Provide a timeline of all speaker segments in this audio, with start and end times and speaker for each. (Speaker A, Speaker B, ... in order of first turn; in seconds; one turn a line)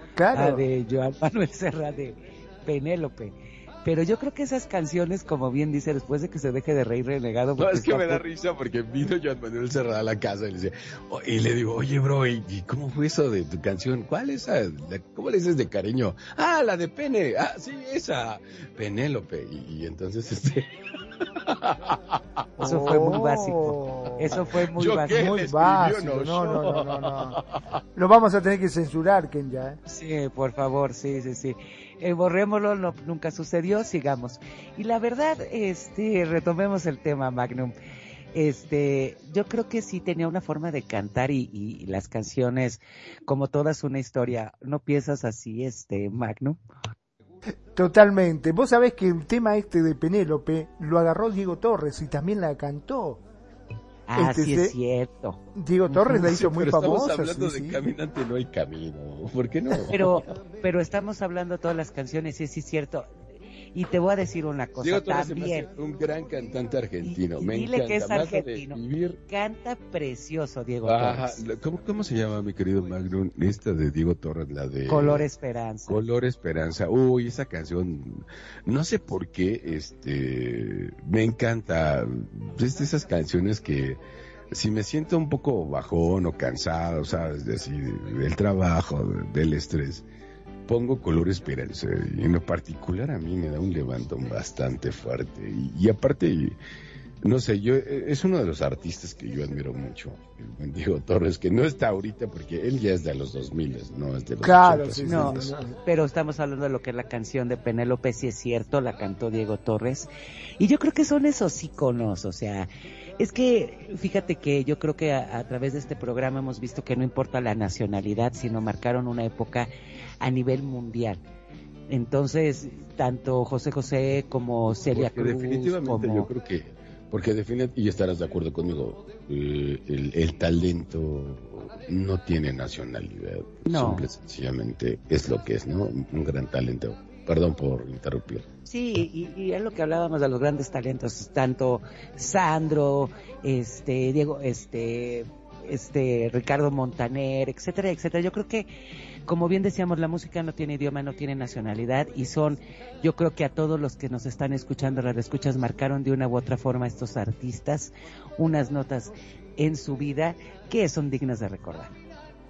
Speaker A: 0.2-0.7
Speaker B: 0.3-8.2
Speaker C: 7.6-20.7
Speaker C: 21.4-22.2
Speaker A: 22.6-24.4
Speaker B: 22.6-25.2
Speaker C: 24.8-27.6
Speaker A: 25.1-27.4
Speaker A: 28.0-29.8
Speaker B: 29.9-37.7
Speaker B: 38.4-46.6
Speaker A: 47.7-53.2
Speaker B: 54.1-55.4
Speaker A: 54.1-54.8
Speaker A: 55.5-57.8
Speaker C: 55.9-60.2
Speaker B: 59.9-63.1
Speaker B: 63.7-65.7
Speaker C: 64.8-69.2
Speaker B: 67.0-71.4
Speaker C: 70.9-75.3
Speaker B: 74.9-76.0
Speaker C: 75.9-84.0
Speaker C: 84.5-90.0
Speaker C: 90.7-96.6
Speaker C: 97.2-105.5
Speaker A: 104.4-105.8
Speaker B: 105.0-119.7
Speaker B: 120.2-121.2
Speaker B: 121.9-126.3
Speaker C: 124.9-138.4
Speaker B: 133.7-134.0
Speaker B: 138.7-148.7
Speaker B: 149.3-161.9